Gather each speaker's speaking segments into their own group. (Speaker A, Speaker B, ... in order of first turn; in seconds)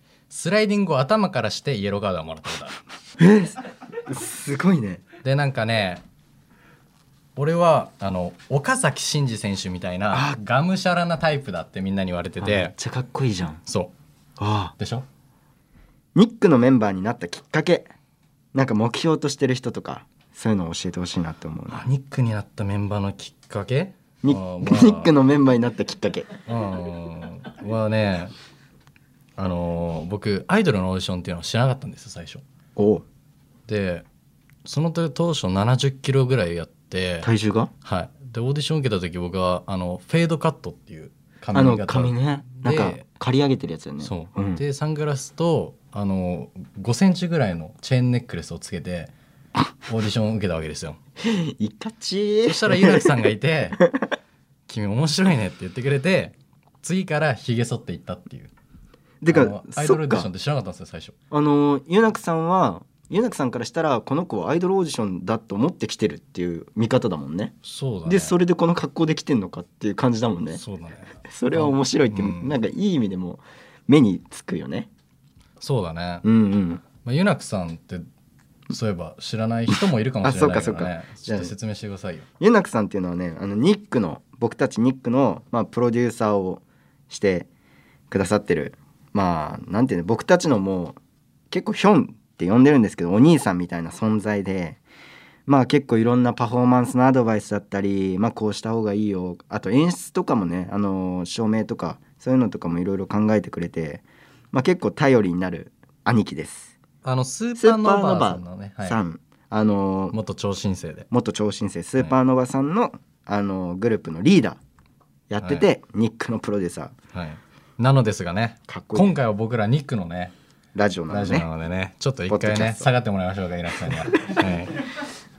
Speaker A: 0.3-2.8, 5.2-6.0, 7.3-12.7, 13.7-13.9, 14.8-15.0, 21.7-25.1, 26.5-28.3, 29.4-32.4, 33.7-34.0, 34.6-37.3, 37.8-43.0, 44.0-49.1, 49.9-51.0, 52.5-53.8, 54.7-58.5, 59.3-61.1, 67.6-68.3, 70.6-72.5, 75.6-76.2, 76.9-78.0, 78.7-82.2, 107.0-109.0, 110.1-111.1, 117.1-120.3, 121.1-124.8
Speaker B: 3.2-5.0, 10.1-10.4, 12.4-13.6, 14.4-14.7, 16.1-17.9, 18.5-21.8, 24.2-26.3, 32.8-33.0, 37.2-37.7, 41.5-44.6, 51.2-53.3, 59.2-60.3, 61.3-67.5, 68.0-70.6, 71.3-74.9, 76.2-76.8, 80.2-81.5, 82.4-87.5, 88.1-91.0, 91.5-94.8, 95.5-106.7, 107.5-110.2, 111.1-114.6, 115.3-116.9, 118.7-119.1, 120.7-121.5, 122.3-122.9